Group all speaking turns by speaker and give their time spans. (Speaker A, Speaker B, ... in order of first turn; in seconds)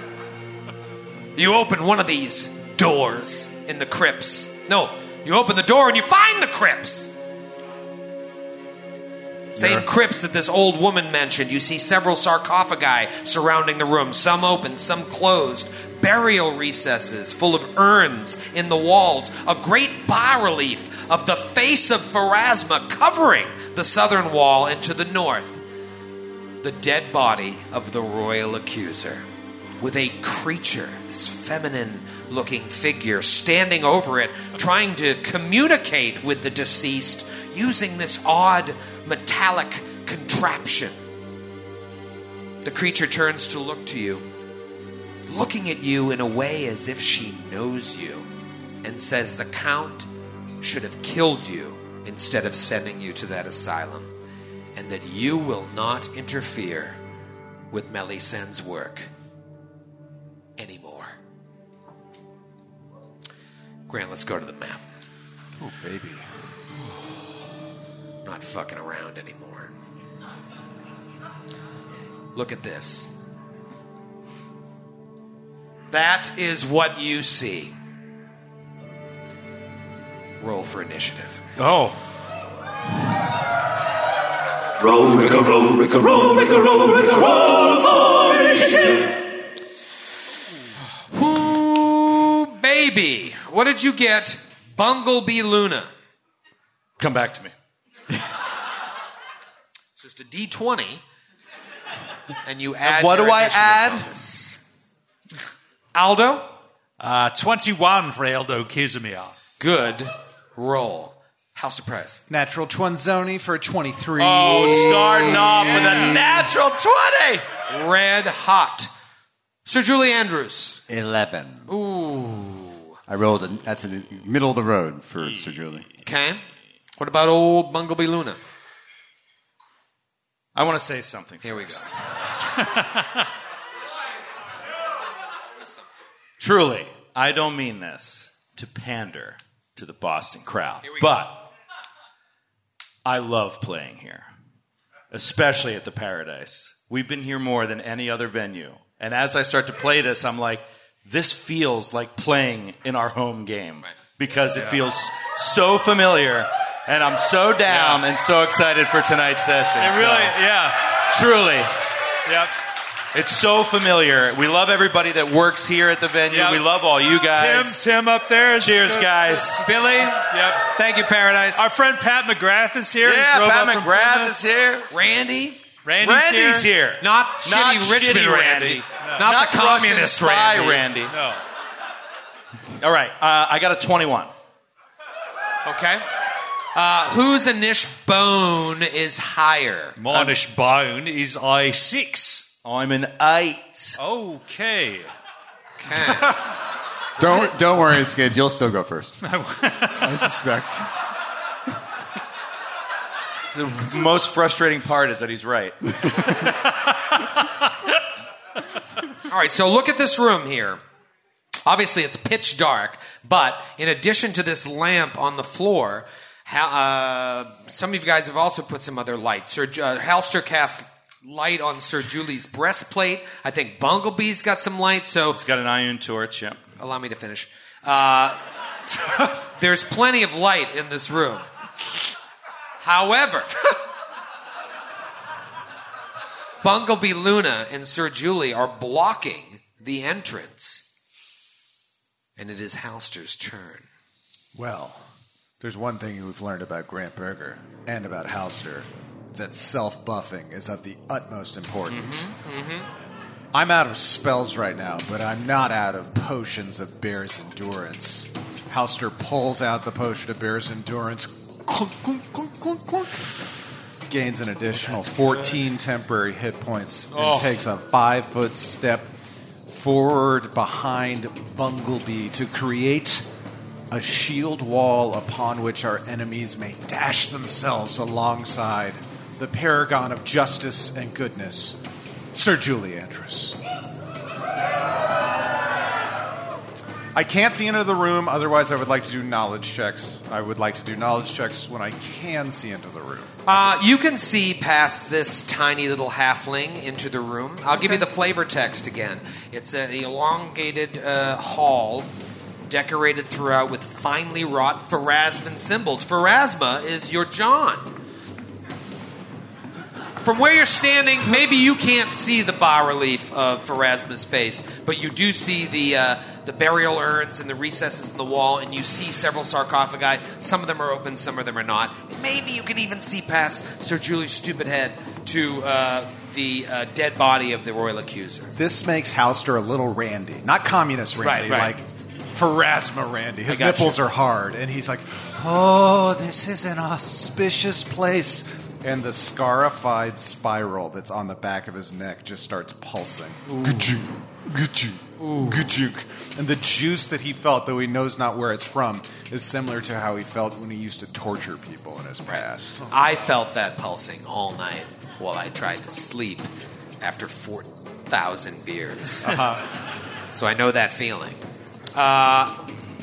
Speaker A: 1.4-7.1, 9.6-25.6, 26.6-29.2, 29.8-41.0, 42.6-44.2, 45.3-48.3, 48.8-50.1, 50.6-54.1, 54.8-57.0, 57.7-59.1, 60.6-61.1, 63.9-64.8, 68.2-69.7, 72.3-73.1, 75.9-77.7, 80.4-81.4, 91.1-95.9, 100.0-101.0, 102.4-104.5, 105.9-106.5, 109.6-112.2, 117.7-118.9, 119.7-120.8, 121.7-122.8, 126.0-126.4, 127.0-128.4, 131.4-131.9, 140.8-141.2, 169.7-171.7, 174.9-175.6, 177.0-180.9, 185.6-186.0, 186.7-190.0, 195.8-196.4, 209.3-210.8, 211.6-225.4, 226.8-228.4, 229.2-231.5, 232.8-233.5, 236.6-240.8, 242.4-243.9, 251.9-252.9, 293.4-302.1, 302.7-307.9, 310.2-328.5, 331.2-331.7, 333.5-334.0, 343.5-343.9, 345.2-345.6, 352.9-356.5, 357.0-359.4, 360.3-361.4, 361.9-362.6
Speaker B: 9.6-9.8, 120.9-121.7, 123.1-125.8, 197.2-199.2, 200.0-200.9
Speaker C: 81.6-82.0, 107.0-109.3, 132.7-133.0, 154.5-154.8, 157.7-158.0, 159.8-160.9, 162.3-162.5, 166.3-166.6, 167.3-170.7, 171.6-174.4, 175.8-176.7, 179.0-179.3, 181.1-181.4, 190.0-192.5, 194.0-195.1, 199.2-200.1
Speaker D: 84.8-89.2
Speaker E: 97.0-97.5, 102.8-104.5, 114.2-117.5, 130.5-131.9, 136.4-141.5, 143.0-144.3, 145.1-160.3, 161.1-161.7, 163.1-167.8, 168.6-169.7, 173.0-174.9, 176.0-181.1, 182.8-184.3, 190.1-190.4, 192.6-194.0, 203.5-206.4, 225.3-226.6
Speaker F: 112.3-116.4, 244.5-245.1, 245.6-252.3, 253.5-263.3, 264.1-269.1, 269.7-273.3, 273.9-281.8, 282.3-283.6, 287.1-293.3, 328.6-352.9, 359.2-359.6